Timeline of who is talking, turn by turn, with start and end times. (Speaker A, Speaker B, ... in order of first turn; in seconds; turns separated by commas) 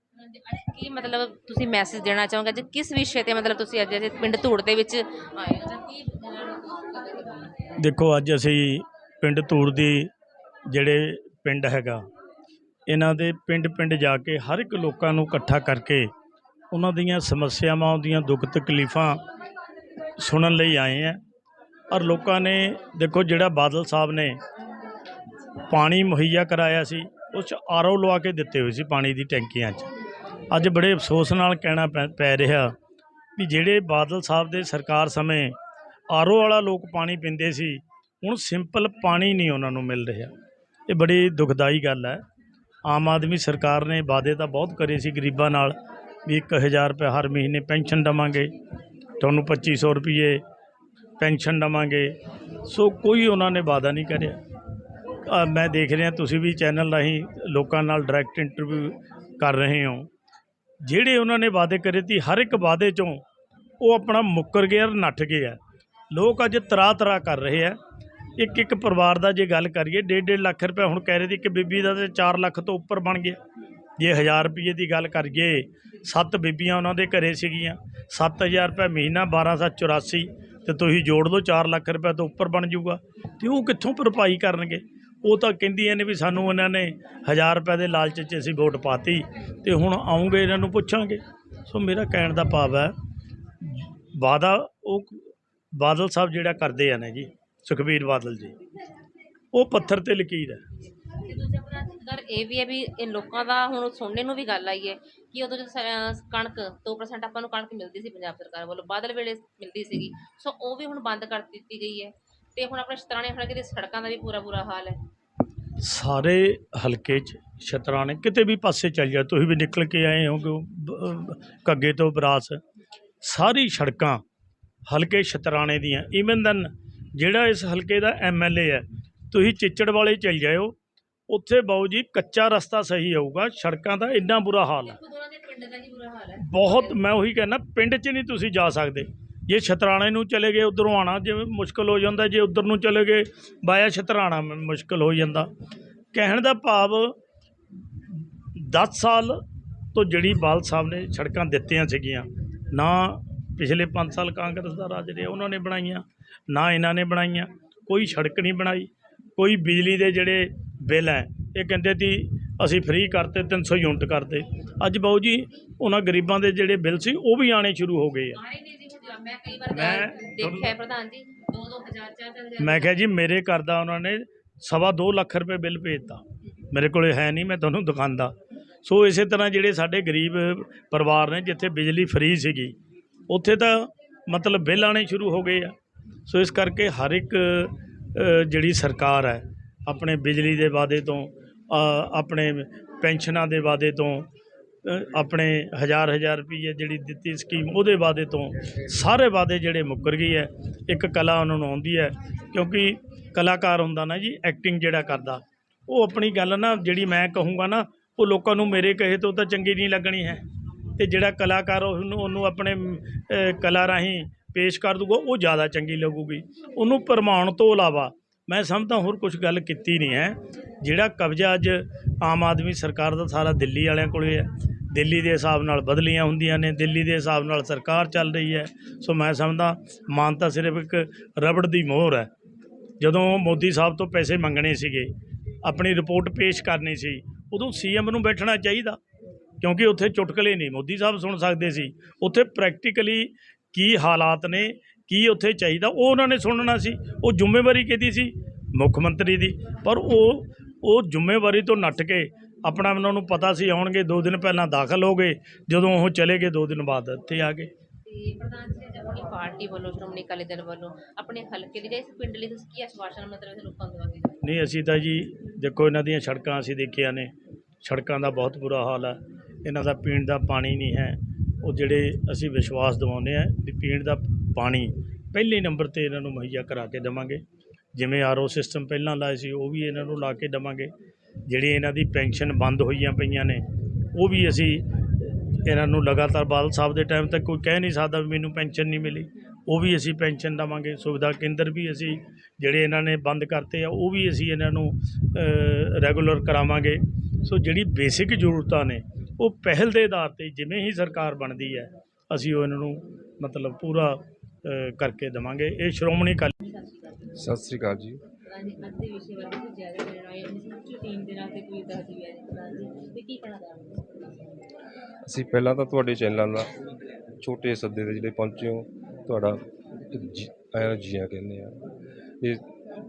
Speaker A: 0.2-7.5, Speaker B: 7.8-10.1, Speaker B: 10.7-12.0, Speaker B: 12.9-16.1, Speaker B: 16.7-19.2, Speaker B: 20.2-21.2, Speaker B: 21.9-24.4, Speaker B: 25.7-29.9, Speaker B: 30.5-32.7, Speaker B: 33.4-35.5, Speaker B: 36.1-40.3, Speaker B: 40.9-42.2, Speaker B: 42.9-45.8, Speaker B: 46.3-48.5, Speaker B: 49.2-50.4, Speaker B: 51.2-52.1, Speaker B: 52.7-54.4, Speaker B: 55.2-60.1, Speaker B: 60.8-63.2, Speaker B: 63.8-65.6, Speaker B: 66.1-67.8, Speaker B: 68.4-73.4, Speaker B: 74.0-92.9, Speaker B: 93.6-98.6, Speaker B: 99.5-100.7, Speaker A: 101.2-115.0, Speaker B: 115.8-122.6, Speaker B: 123.2-124.2, Speaker B: 124.9-130.8, Speaker B: 131.3-135.0, Speaker A: 134.8-137.0, Speaker B: 136.4-145.5, Speaker B: 146.1-147.1, Speaker B: 148.6-149.4, Speaker B: 149.9-168.4, Speaker A: 168.3-172.9, Speaker B: 169.7-170.7, Speaker B: 172.6-182.8, Speaker B: 183.3-185.8, Speaker B: 186.3-194.3, Speaker B: 194.8-210.4, Speaker B: 211.0-232.3, Speaker B: 233.0-235.1, Speaker B: 235.6-239.0, Speaker B: 239.6-257.7, Speaker A: 258.0-264.4, Speaker B: 264.4-267.3, Speaker B: 267.8-277.4, Speaker B: 277.9-280.9, Speaker B: 281.5-306.5, Speaker A: 306.8-307.1, Speaker C: 307.4-308.2, Speaker A: 308.5-314.2, Speaker C: 315.3-316.7, Speaker C: 317.4-319.6, Speaker C: 320.1-321.7